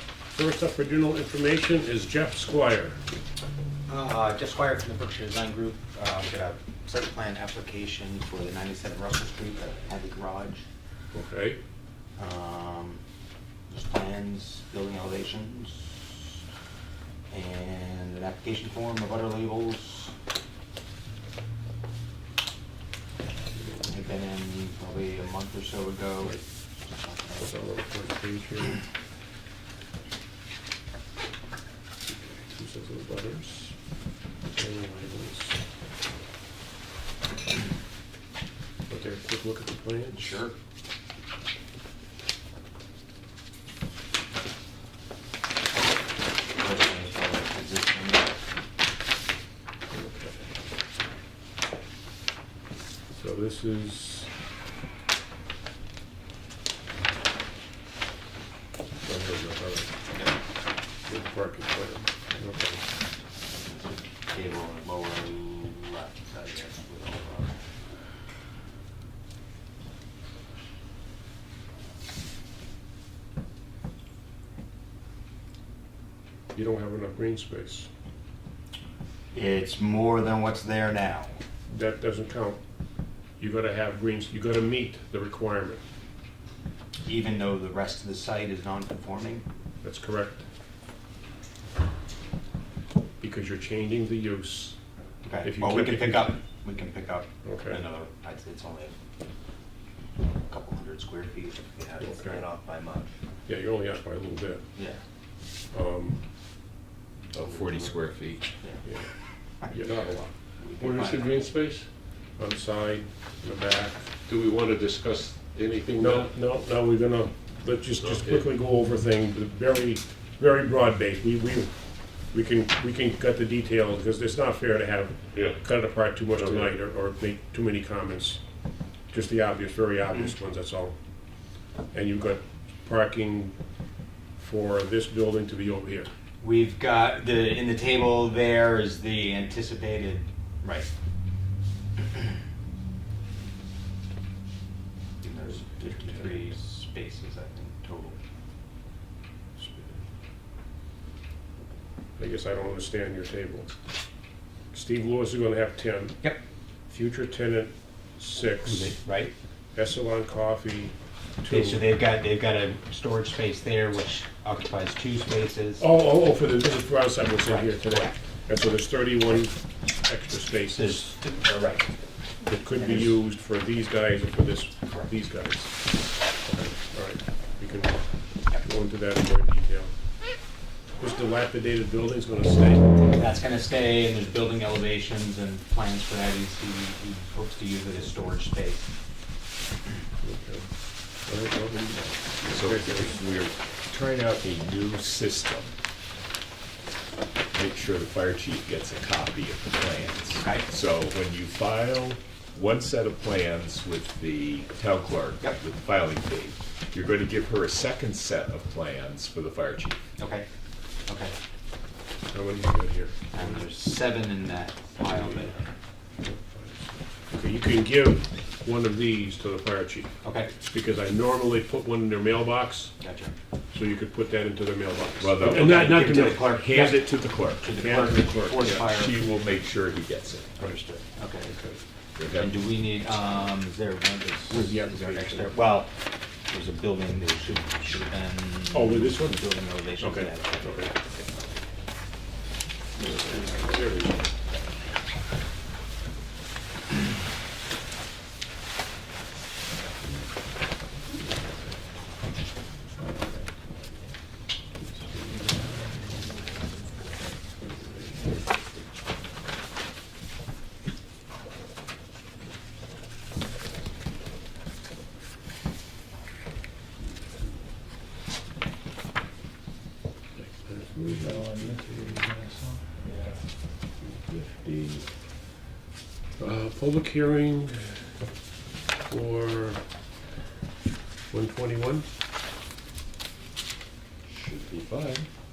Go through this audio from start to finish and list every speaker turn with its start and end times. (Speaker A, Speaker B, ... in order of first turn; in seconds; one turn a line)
Speaker A: 0.3-3.0
Speaker B: 3.9-10.7
Speaker A: 11.1-11.6
Speaker B: 12.2-13.0
Speaker B: 13.7-16.2
Speaker B: 17.3-20.1
Speaker A: 23.5-24.1
Speaker B: 23.9-27.5
Speaker A: 27.4-28.8
Speaker A: 32.1-33.7
Speaker A: 34.6-35.6
Speaker A: 38.9-40.3
Speaker B: 40.1-40.5
Speaker B: 46.6-48.4
Speaker A: 49.9-50.5
Speaker A: 53.2-54.3
Speaker A: 59.0-59.9
Speaker A: 61.1-62.8
Speaker B: 63.6-67.5
Speaker A: 76.5-77.9
Speaker B: 79.3-81.4
Speaker A: 81.7-82.6
Speaker A: 83.4-85.8
Speaker B: 87.1-89.5
Speaker A: 89.8-90.4
Speaker A: 93.2-94.8
Speaker B: 95.2-99.0
Speaker A: 95.4-96.3
Speaker A: 97.4-97.8
Speaker B: 100.5-103.2
Speaker A: 102.0-102.4
Speaker A: 103.5-104.6
Speaker B: 104.8-105.0
Speaker A: 105.7-106.2
Speaker C: 107.3-108.5
Speaker B: 109.6-111.4
Speaker A: 109.7-110.2
Speaker D: 110.8-111.9
Speaker A: 112.4-114.1
Speaker D: 114.3-116.3
Speaker A: 116.0-121.7
Speaker D: 118.0-118.5
Speaker A: 122.3-128.4
Speaker D: 125.3-125.6
Speaker D: 126.3-126.8
Speaker A: 129.1-131.0
Speaker A: 131.9-133.6
Speaker A: 134.4-136.1
Speaker B: 136.4-140.9
Speaker B: 145.2-148.2
Speaker A: 145.7-146.5
Speaker A: 149.6-150.0
Speaker A: 152.2-153.8
Speaker A: 154.7-156.2
Speaker A: 156.9-159.0
Speaker B: 158.6-159.3
Speaker A: 159.8-161.8
Speaker B: 161.5-165.9
Speaker A: 165.8-171.1
Speaker B: 167.4-168.2
Speaker B: 170.7-171.9
Speaker A: 172.4-175.7
Speaker B: 172.7-173.2
Speaker A: 176.4-178.0
Speaker A: 178.6-179.9
Speaker A: 181.0-183.0
Speaker B: 183.1-188.9
Speaker A: 190.2-190.7
Speaker A: 191.3-193.1
Speaker C: 192.5-195.7
Speaker C: 197.5-210.0
Speaker B: 200.3-200.7
Speaker B: 210.2-210.5
Speaker B: 211.1-211.3
Speaker A: 212.3-213.7
Speaker B: 213.3-215.7
Speaker A: 215.0-215.5
Speaker A: 216.2-220.1
Speaker B: 220.2-220.5
Speaker A: 220.6-222.9
Speaker B: 223.0-223.3
Speaker A: 223.7-226.4
Speaker C: 225.2-227.7
Speaker B: 225.4-229.2
Speaker A: 227.7-228.9
Speaker C: 228.6-230.6
Speaker B: 230.6-231.6
Speaker C: 232.2-232.5
Speaker B: 232.3-235.9
Speaker A: 234.5-235.5
Speaker B: 236.5-241.0
Speaker A: 238.7-239.4
Speaker A: 240.0-240.9
Speaker A: 243.0-244.2
Speaker A: 254.9-256.2
Speaker A: 270.4-271.8
Speaker B: 271.5-273.3
Speaker A: 274.3-274.7
Speaker A: 276.4-278.0
Speaker A: 279.1-279.8
Speaker A: 281.3-282.1
Speaker C: 284.3-285.3